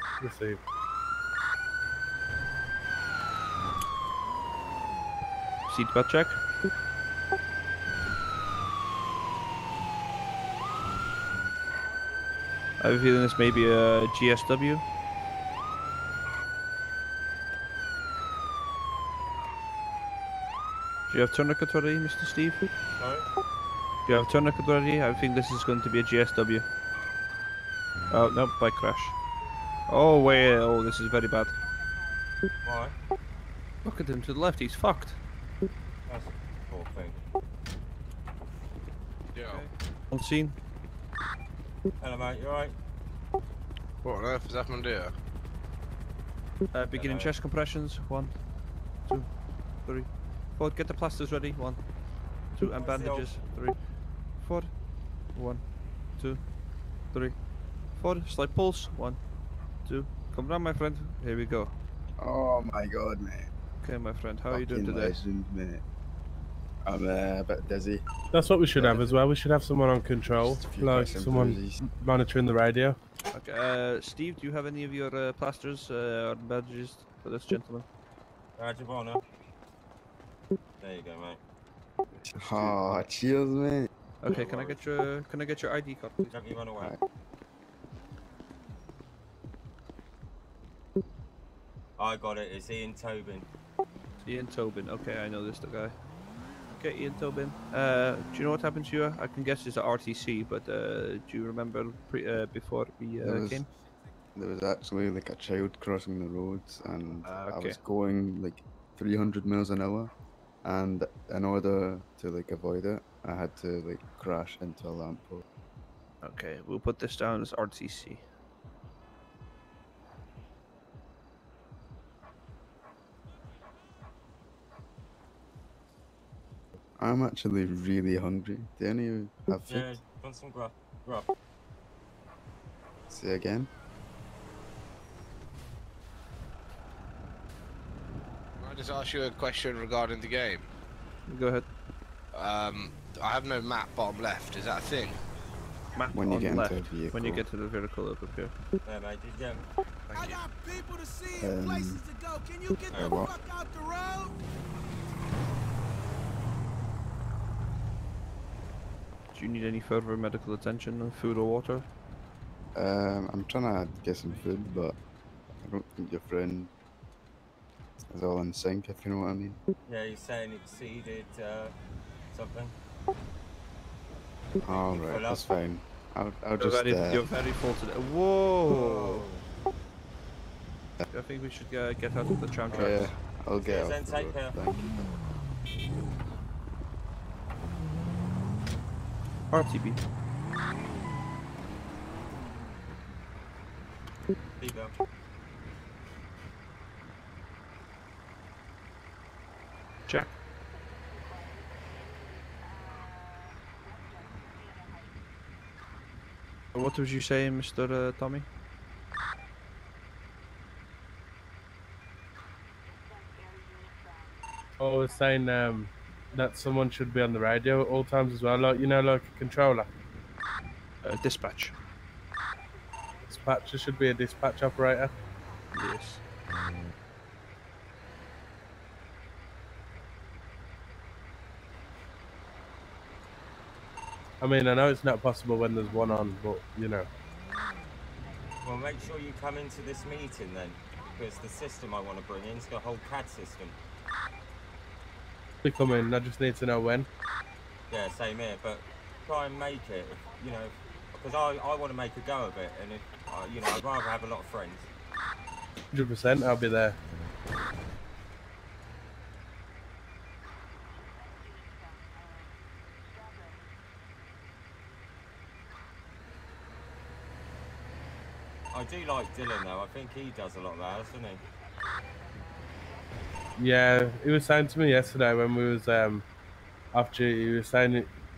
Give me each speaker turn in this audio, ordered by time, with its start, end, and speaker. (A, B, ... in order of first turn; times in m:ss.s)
0:00.2-0:00.6 A
0:05.7-0:06.4 B
0:12.8-0:14.8 B
0:21.1-0:22.7 B
0:23.0-0:23.3 C
0:24.1-0:26.7 B
0:28.1-0:29.2 B
0:29.9-0:31.5 B
0:32.6-0:33.0 C
0:33.8-0:35.2 B
0:36.1-0:37.2 C
0:39.3-0:39.6 D
0:39.5-0:40.6 B
0:42.0-0:42.8 C
0:44.0-0:45.1 D
0:46.7-0:48.4 B
0:46.9-0:47.4 C
0:49.0-0:51.8 B
0:52.6-0:54.7 B
0:52.6-0:53.4 C
0:55.3-0:55.6 B
0:56.2-0:56.5 B
0:57.1-0:57.4 B
0:58.0-0:59.2 B
0:59.8-1:01.7 B
1:02.2-1:03.5 E
1:03.8-1:05.2 B
1:04.5-1:05.8 E
1:06.9-1:08.0 E
1:08.3-1:13.0 A
1:08.7-1:09.2 E
1:10.4-1:11.8 E
1:13.3-1:17.9 B
1:18.6-1:19.2 C
1:20.8-1:21.4 C
1:22.4-1:23.9 E
1:24.2-1:26.2 B
1:24.3-1:24.8 D
1:26.2-1:26.9 C
1:32.0-1:33.5 C
1:34.2-1:36.0 B
1:36.7-1:43.7 B
1:43.2-1:43.6 E
1:44.4-1:50.1 E
1:47.2-1:47.8 B
1:50.6-1:55.4 E
1:56.2-1:58.3 B
2:07.0-2:09.9 E
2:09.7-2:11.3 C
2:13.1-2:13.7 E
2:18.6-2:20.7 D
2:21.3-2:21.7 B
2:22.3-2:25.2 D
2:26.0-2:28.6 B
2:26.1-2:27.4 E
2:28.8-2:29.6 C
2:30.1-2:30.4 D
2:30.1-2:34.4 F
2:31.4-2:32.0 E
2:32.9-2:33.3 C
2:32.9-2:33.3 E
2:39.3-2:41.9 B
2:42.8-2:45.0 E
2:45.6-2:46.7 E
2:48.1-2:49.6 E
2:49.9-2:51.8 C
2:52.3-2:52.7 C
2:54.6-2:55.4 C
2:54.6-2:57.3 E
2:56.6-2:59.3 B
2:58.7-2:59.4 C
3:01.1-3:03.1 B
3:02.7-3:05.0 E
3:03.6-3:04.6 C
3:09.5-3:10.0 B
3:14.6-3:15.0 C
3:26.7-3:28.5 B
3:34.8-3:39.9 A
3:41.0-3:41.8 B
3:43.3-3:45.1 A
3:45.7-3:46.2 B
3:54.4-3:57.1 A
3:58.6-4:03.8 C
4:05.6-4:07.1 A
4:07.9-4:14.9 C
4:15.9-4:17.0 A
4:28.7-4:31.4 C
4:33.6-4:36.2 A
4:36.9-4:38.1 A